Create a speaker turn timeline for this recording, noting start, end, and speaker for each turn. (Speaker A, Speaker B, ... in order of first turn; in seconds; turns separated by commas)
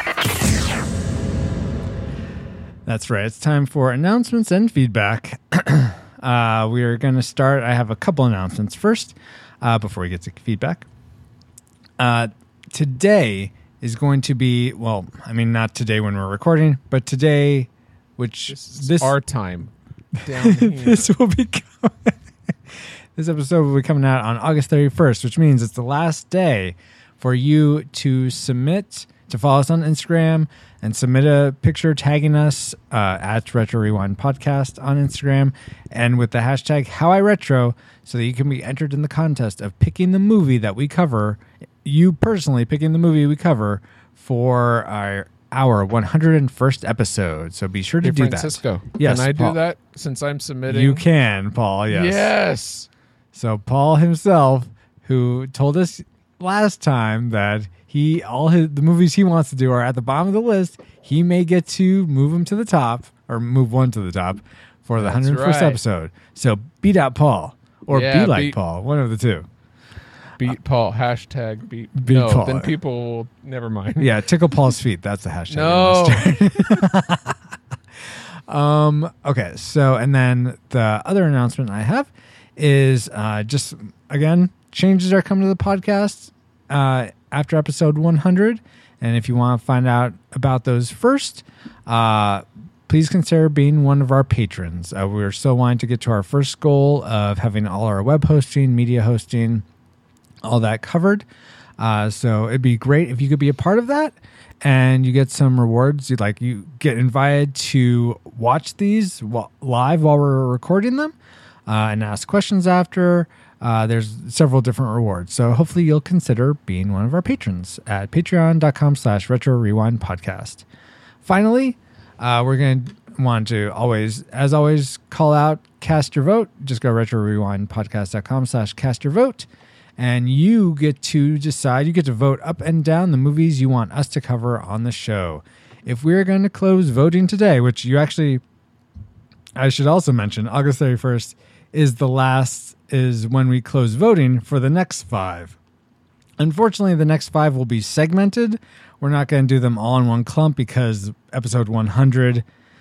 Speaker A: 2.9-10.8, Speaker A: 12.0-19.1, Speaker B: 18.5-19.7, Speaker B: 20.2-21.1, Speaker A: 20.4-22.2, Speaker A: 23.1-49.6, Speaker B: 48.0-51.0, Speaker A: 50.7-52.3, Speaker B: 51.9-52.9, Speaker A: 53.3-69.5, Speaker B: 65.0-65.8, Speaker B: 67.9-68.6, Speaker B: 70.4-74.2, Speaker A: 72.0-72.7, Speaker A: 74.0-77.4, Speaker B: 75.5-76.4, Speaker A: 78.5-99.6, Speaker A: 100.4-101.2, Speaker A: 101.8-111.2, Speaker A: 111.7-120.6, Speaker A: 121.2-129.5, Speaker A: 130.0-138.4, Speaker A: 139.6-145.6, Speaker A: 146.4-152.4